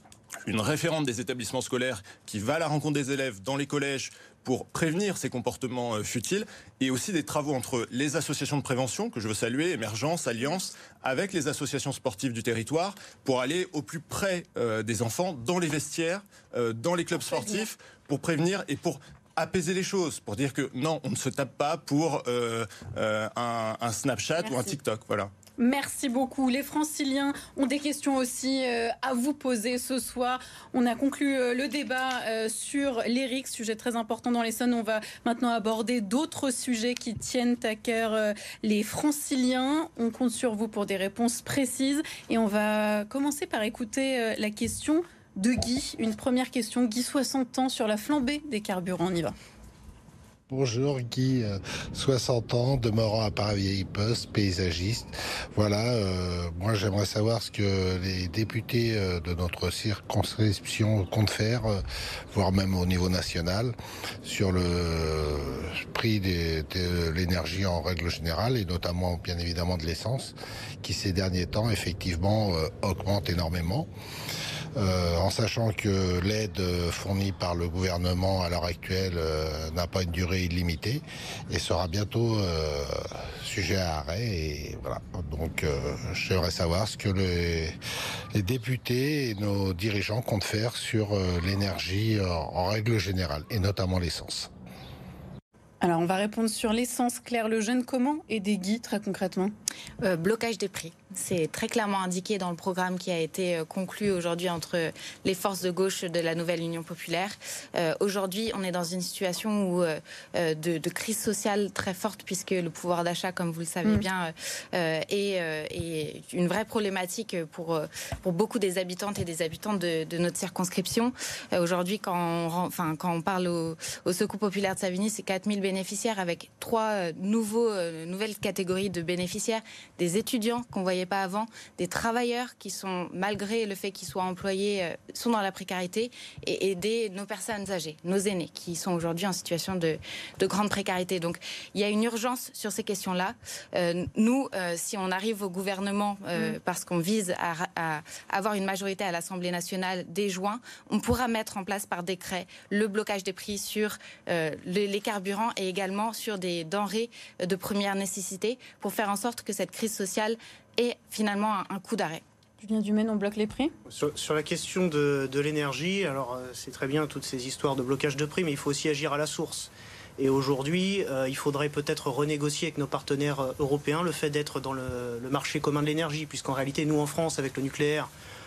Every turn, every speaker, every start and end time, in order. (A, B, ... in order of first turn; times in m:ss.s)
0:00.5-0:25.3 A
0:17.2-0:17.7 B
0:24.4-0:24.8 B
0:25.6-0:49.4 B
0:50.5-1:01.8 C
1:02.3-1:13.9 C
1:14.8-1:27.8 C
1:28.3-1:34.5 C
1:35.8-1:39.5 B
1:40.0-2:42.2 D
2:42.6-2:43.7 B
2:43.9-2:58.1 E